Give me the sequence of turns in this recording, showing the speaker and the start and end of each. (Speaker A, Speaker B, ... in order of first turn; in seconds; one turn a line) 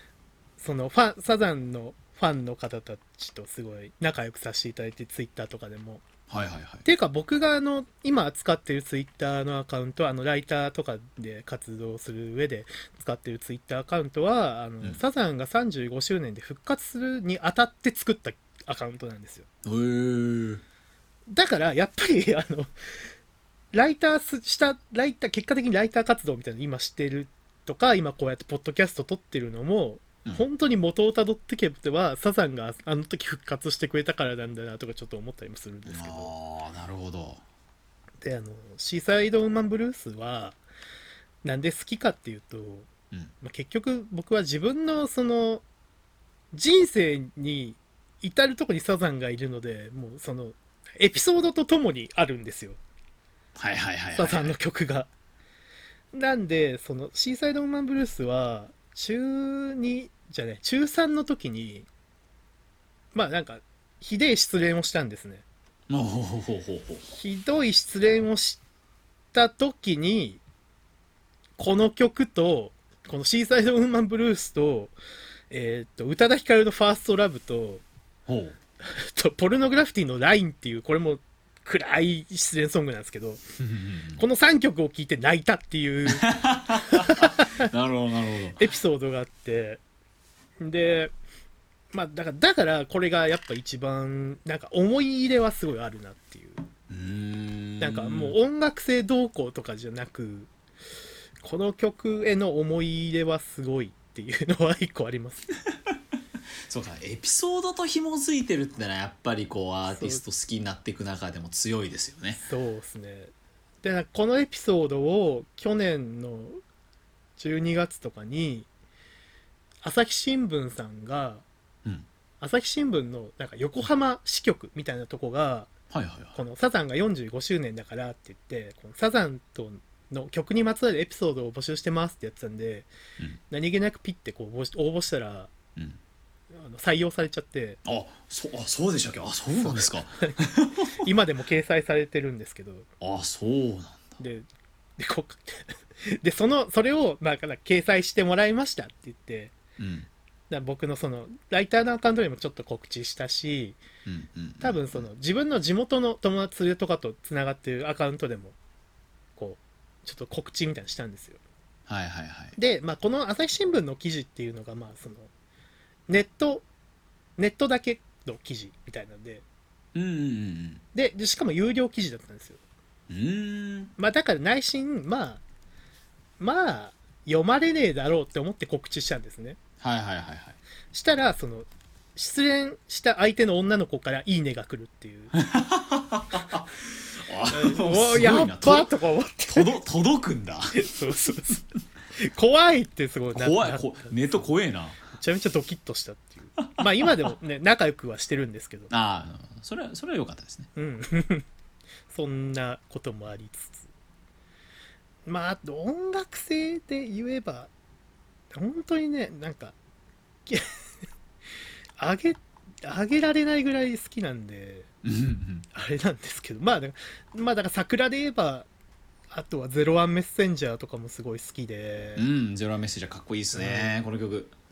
Speaker A: 0.6-6.0
Speaker B: 6.3-6.9
Speaker A: 6.8-19.4
Speaker B: 19.6-20.6
Speaker A: 21.3-22.7
Speaker A: 23.7-36.3
Speaker B: 35.9-37.4
Speaker A: 38.2-40.6
Speaker A: 41.4-42.9
Speaker A: 43.4-45.6
Speaker A: 46.5-52.8
Speaker B: 53.5-54.5
Speaker A: 54.1-55.1
Speaker A: 56.1-61.9
Speaker A: 63.1-65.4
Speaker B: 65.9-67.1
Speaker A: 67.1-68.6
Speaker A: 69.3-70.4
Speaker A: 71.6-74.9
Speaker A: 75.5-77.8
Speaker B: 78.3-78.5
Speaker A: 78.8-83.4
Speaker B: 83.6-84.2
Speaker A: 84.2-87.6
Speaker B: 86.1-88.7
Speaker A: 88.6-89.8
Speaker A: 90.6-91.1
Speaker A: 91.9-96.7
Speaker B: 96.9-98.4
Speaker A: 97.8-100.5
Speaker A: 101.4-105.5
Speaker B: 106.7-112.4
Speaker A: 109.9-110.2
Speaker A: 112.4-116.6
Speaker A: 117.4-118.7
Speaker A: 119.8-121.4
Speaker A: 122.4-125.7
Speaker B: 125.9-126.4
Speaker A: 126.3-132.9
Speaker A: 133.5-135.5
Speaker A: 136.5-137.8
Speaker B: 137.8-141.0
Speaker A: 139.6-140.3
Speaker A: 140.9-142.9
Speaker B: 143.0-144.2
Speaker A: 144.2-144.5
Speaker A: 145.0-149.5
Speaker B: 149.8-150.1
Speaker A: 150.5-153.8
Speaker B: 154.1-155.1
Speaker A: 154.6-158.6
Speaker A: 159.3-161.4
Speaker B: 161.9-162.6
Speaker A: 162.6-165.3
Speaker A: 166.1-166.6
Speaker A: 167.4-169.4
Speaker B: 169.9-170.8
Speaker A: 170.9-172.6
Speaker B: 173.1-173.9
Speaker A: 174.0-175.4
Speaker A: 176.4-179.6
Speaker B: 179.8-180.6
Speaker A: 180.9-185.3
Speaker B: 185.3-188.9
Speaker A: 187.5-189.8
Speaker B: 189.5-191.6
Speaker A: 190.7-191.6
Speaker A: 192.1-194.5
Speaker B: 193.3-195.0
Speaker A: 195.1-198.9
Speaker B: 196.6-196.8
Speaker B: 198.9-200.7
Speaker A: 200.7-201.4
Speaker A: 202.1-203.9
Speaker A: 205.2-207.7
Speaker A: 208.5-209.8
Speaker A: 212.0-214.9
Speaker B: 215.0-215.7
Speaker A: 215.7-218.7
Speaker A: 219.3-222.3
Speaker B: 222.2-224.5
Speaker A: 223.5-224.0